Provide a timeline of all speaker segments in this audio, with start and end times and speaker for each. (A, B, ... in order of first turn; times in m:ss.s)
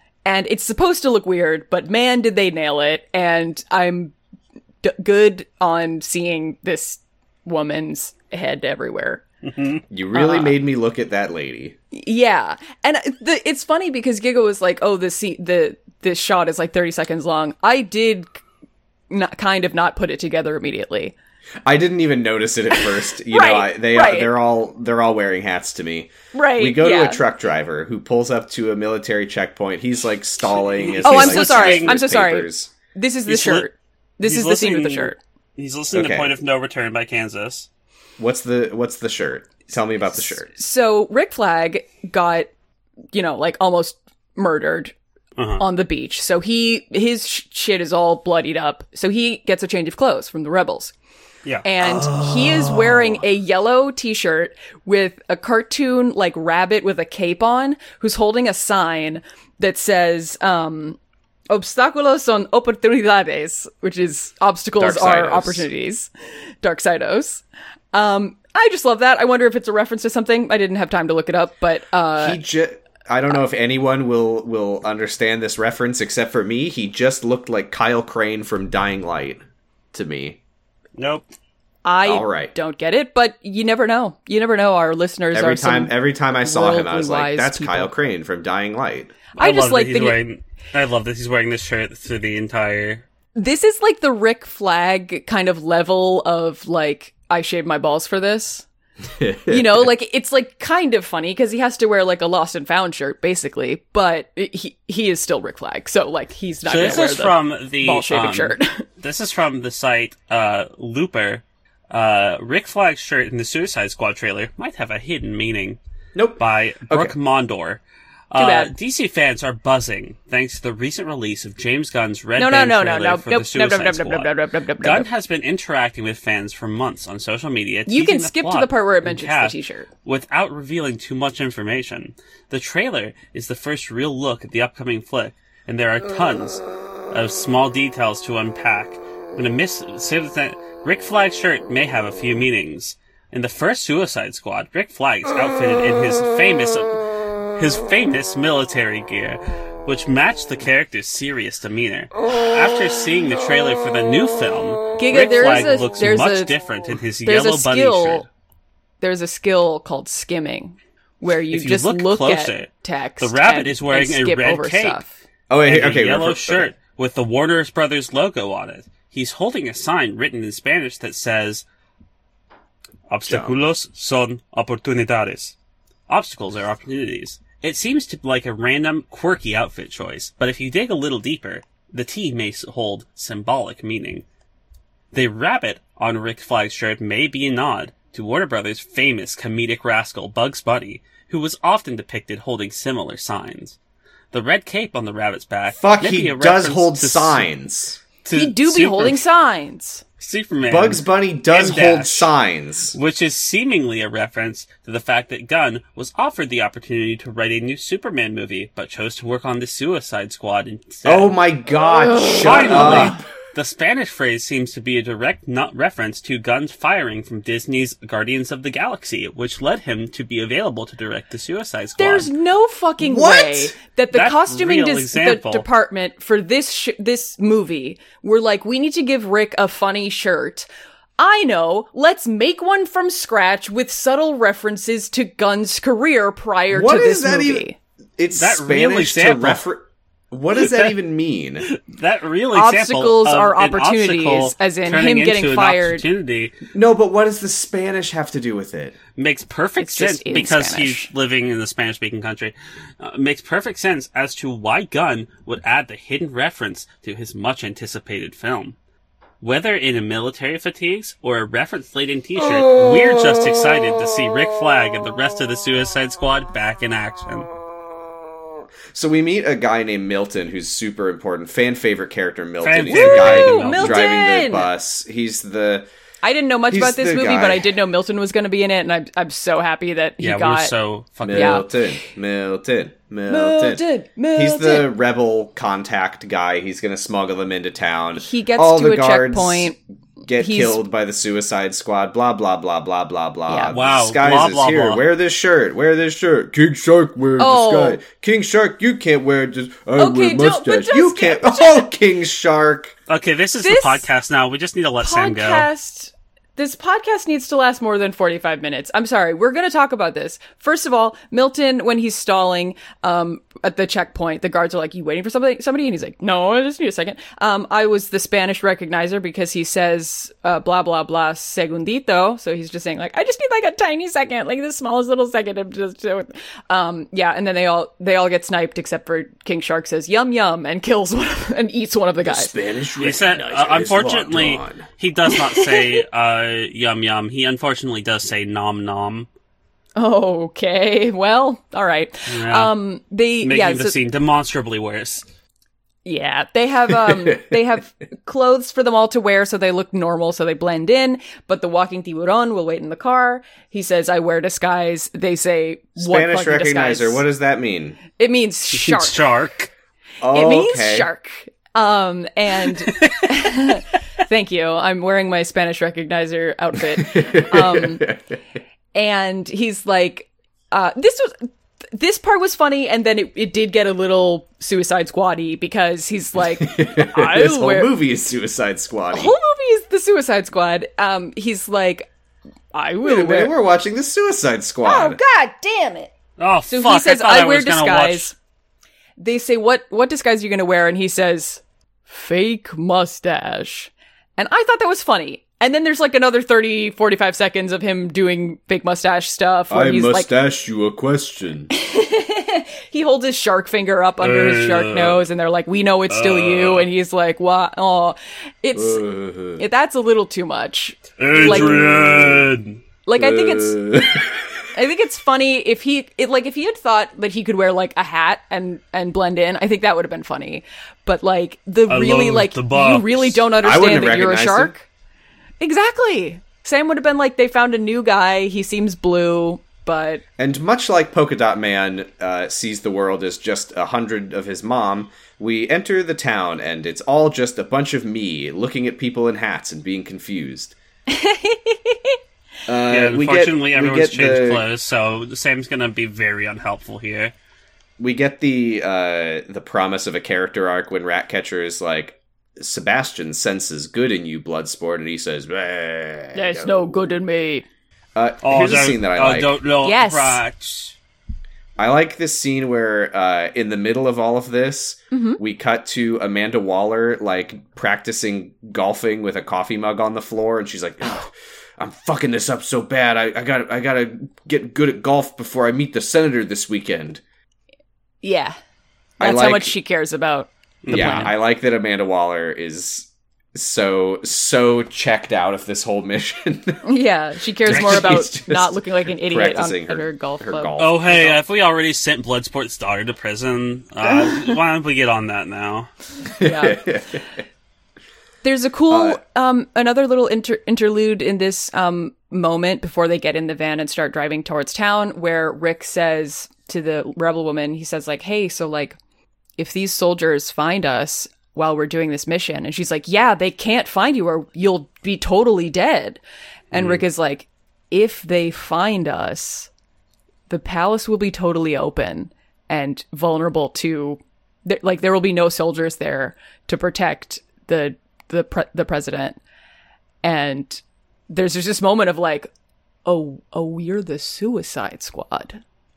0:00.2-0:04.1 A
0:04.8-0:09.2 A
0:09.4-0:09.8 B
0:09.9-0:11.8 C
0:10.1-0:10.6 A
0:11.9-0:18.4 A
0:19.1-0:21.1 A
0:21.6-0:32.7 C
0:22.7-0:24.3 A
0:26.3-0:27.2 A
0:30.7-0:32.0 B
0:31.0-0:35.2 A
0:33.3-0:33.7 B
0:34.2-0:37.7 B
0:35.9-0:36.3 C
0:38.2-0:40.5 C
0:40.4-0:42.5 A
0:43.1-0:44.9 A
0:45.4-0:45.6 B
0:45.6-0:50.9 A
0:51.6-1:01.0 A
0:51.8-0:53.2 C
1:01.5-1:06.1 A
1:04.8-1:05.7 C
1:06.6-1:12.4 A
1:12.2-1:19.4 C
1:19.9-1:20.4 C
1:21.0-1:21.2 B
1:21.8-1:27.9 A
1:22.0-1:22.5 C
1:25.3-1:29.1 C
1:29.4-1:30.2 A
1:29.4-1:33.0 B
1:33.3-1:38.6 A
1:39.2-1:39.9 C
1:39.5-1:48.8 A
1:46.6-1:55.8 B
1:56.1-1:57.1 C
1:56.4-2:27.0 B
1:58.4-1:58.7 A
2:02.4-2:05.1 A
2:07.9-2:09.9 A
2:27.6-2:38.3 B
2:35.0-2:36.5 A
2:37.2-2:38.3 A
2:39.0-2:45.1 A
2:41.5-2:45.0 B
2:45.5-2:46.7 C
2:45.6-2:51.6 B
2:53.1-2:55.5 B
2:53.2-2:53.6 C
2:56.1-3:04.2 B
3:05.1-3:13.8 B
3:14.3-3:17.5 B
3:15.8-3:18.0 C
3:18.2-3:19.2 B
3:18.3-3:20.0 A
3:20.2-3:22.3 B
3:20.7-3:23.0 C
3:22.9-3:31.3 B
3:31.0-3:33.2 C
3:31.8-3:33.2 A
3:32.4-3:42.3 B
3:42.0-3:50.7 A
3:43.0-3:43.7 C
3:44.1-3:45.7 B
3:51.2-3:57.8 A
3:56.7-3:57.6 C
3:58.2-4:01.7 C
3:58.3-3:59.6 B
4:00.5-4:00.9 B
4:01.6-4:06.5 B
4:02.5-4:06.0 A
4:06.7-4:09.0 C
4:09.2-4:18.8 B
4:09.8-4:11.1 A
4:19.4-4:27.5 B
4:28.9-4:35.9 C
4:32.6-4:34.1 B
4:32.9-4:34.7 A
4:36.2-4:40.7 A
4:36.7-4:37.7 C
4:40.2-4:41.6 B
4:41.2-4:43.8 C
4:41.3-4:41.6 A
4:43.3-4:44.9 A
4:44.3-4:49.7 C
4:48.2-4:49.8 A
4:50.3-5:02.9 C
4:50.4-4:50.8 A
4:53.5-4:53.7 A
4:53.7-4:55.0 B
4:57.4-4:58.0 A
5:00.0-5:01.8 A
5:03.1-5:05.7 B
5:03.6-5:04.0 A
5:05.0-5:32.5 A
5:32.2-5:34.9 C
5:33.0-5:39.3 B
5:35.3-5:36.0 A
5:40.0-5:44.0 A
5:42.3-5:42.7 B
5:43.4-5:45.2 B
5:46.0-5:57.2 A
5:46.9-5:47.4 C
5:56.0-5:58.0 C
5:58.2-5:59.2 A
5:58.7-5:59.7 B
6:00.2-6:01.1 C
6:00.3-6:08.1 A
6:02.8-6:03.5 B
6:07.0-6:08.3 C
6:08.9-6:17.9 A
6:16.6-6:19.4 C
6:19.1-6:22.1 A
6:22.7-6:23.5 A
6:23.0-6:25.2 C
6:24.8-6:26.1 A
6:26.4-6:28.3 B
6:26.7-6:28.3 A
6:29.2-6:40.3 A
6:39.7-6:41.7 C
6:41.7-6:49.0 A
6:44.2-6:45.2 B
6:46.1-6:46.9 B
6:48.7-6:49.6 C
6:49.6-6:51.8 A
6:51.2-6:52.8 B
6:51.3-6:52.5 C
6:53.0-6:53.8 A
6:53.2-6:54.6 C
6:54.7-7:04.9 A
7:01.9-7:03.4 B
7:03.6-7:04.7 C
7:05.6-7:10.2 A
7:10.4-7:20.7 C
7:21.1-7:22.2 A
7:22.7-7:24.6 C
7:22.9-7:27.3 B
7:28.0-7:36.9 C
7:36.3-7:37.6 A
7:38.1-7:39.6 C
7:38.4-7:40.9 B
7:39.8-7:40.4 A
7:41.8-7:57.2 C
7:45.1-7:45.4 A
7:58.2-7:58.6 A
7:59.2-7:59.7 C
7:59.2-8:01.3 A
8:00.8-8:01.3 B
8:00.9-8:06.8 C
8:06.8-8:10.8 A
8:07.6-8:11.4 C
8:07.7-8:08.1 B
8:10.8-8:15.9 B
8:14.0-8:14.6 A
8:16.4-8:17.4 C
8:16.4-8:16.8 A
8:18.4-8:29.0 A
8:18.9-8:19.2 C
8:29.6-8:36.2 A
8:36.7-8:39.7 A
8:36.7-8:37.0 B
8:40.5-8:49.4 A
8:50.2-8:52.5 A
8:53.0-8:55.6 A